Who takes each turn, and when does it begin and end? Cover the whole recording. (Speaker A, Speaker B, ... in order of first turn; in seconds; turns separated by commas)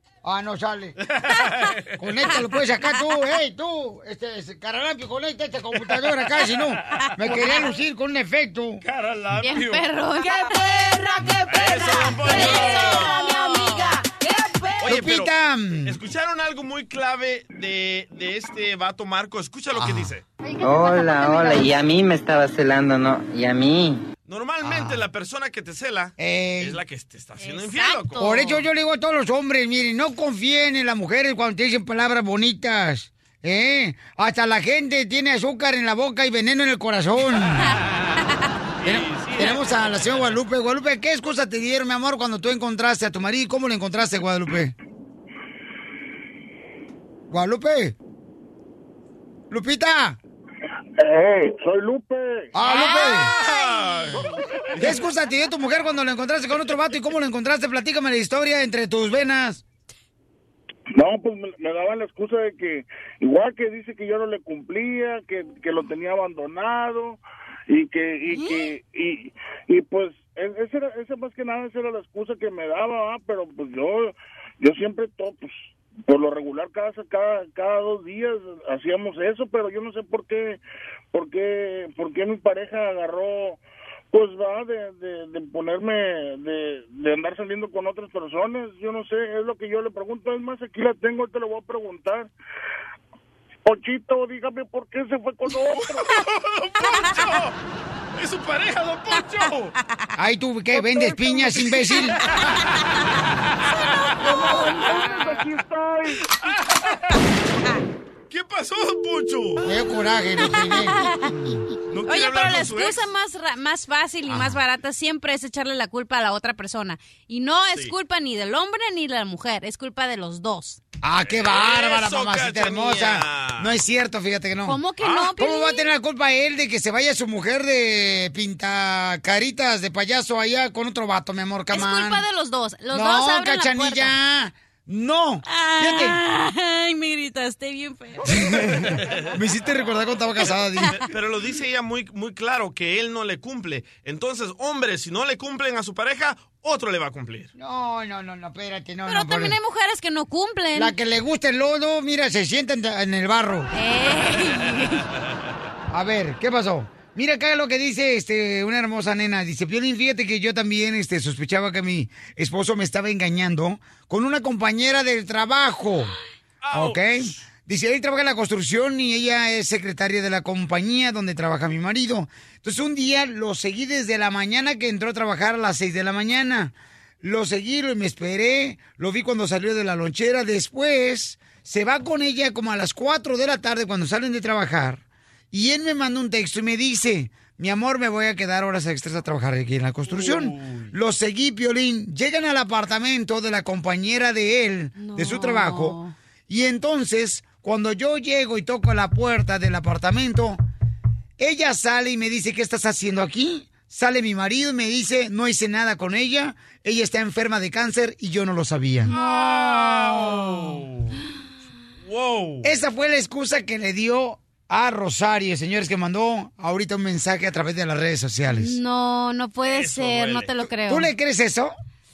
Speaker A: 0.2-1.0, Speaker B: 1.1-2.3, Speaker A: 2.0-8.8, Speaker B: 7.2-7.5, Speaker B: 8.8-9.9, Speaker C: 9.4-10.5, Speaker D: 10.3-14.8, Speaker B: 11.5-13.3, Speaker C: 12.4-13.9, Speaker B: 14.8-20.2, Speaker A: 14.8-16.0, Speaker A: 19.7-20.1, Speaker D: 20.4-21.9, Speaker E: 20.6-24.0, Speaker B: 24.3-28.2, Speaker A: 24.6-25.0, Speaker A: 26.2-26.8, Speaker C: 27.4-28.6, Speaker A: 28.2-37.8, Speaker B: 38.8-40.3, Speaker A: 38.8-44.7, Speaker A: 47.3-48.0, Speaker A: 49.5-50.2, Speaker F: 51.0-52.5, Speaker A: 52.5-53.3, Speaker C: 52.6-54.3, Speaker B: 52.7-55.0, Speaker A: 54.8-59.6, Speaker F: 61.0-80.6, Speaker C: 68.3-68.7, Speaker F: 81.1-83.6, Speaker F: 84.1-92.3, Speaker F: 93.7-96.1, Speaker B: 95.9-97.5, Speaker B: 98.2-99.7, Speaker A: 100.2-102.2, Speaker B: 103.8-104.9, Speaker F: 104.7-106.0, Speaker B: 108.3-109.7, Speaker A: 109.6-111.1, Speaker C: 110.4-111.4, Speaker B: 111.9-113.1, Speaker C: 112.0-120.8, Speaker A: 121.0-132.2, Speaker B: 121.3-123.8, Speaker C: 124.7-125.9, Speaker B: 125.0-125.3, Speaker C: 131.7-134.1, Speaker A: 132.9-136.2, Speaker C: 135.4-138.4, Speaker A: 138.3-141.0, Speaker B: 141.1-147.5, Speaker A: 147.6-149.6, Speaker C: 149.1-150.9, Speaker A: 150.8-153.7, Speaker C: 153.7-155.0, Speaker A: 155.9-166.1, Speaker B: 166.6-167.4, Speaker A: 166.7-200.6, Speaker B: 190.1-190.9, Speaker C: 195.0-196.1, Speaker A: 201.4-209.1, Speaker C: 209.1-210.8, Speaker B: 209.2-211.2, Speaker B: 212.1-212.7, Speaker A: 212.6-218.8, Speaker C: 218.5-221.1, Speaker B: 219.6-220.7, Speaker A: 220.9-221.7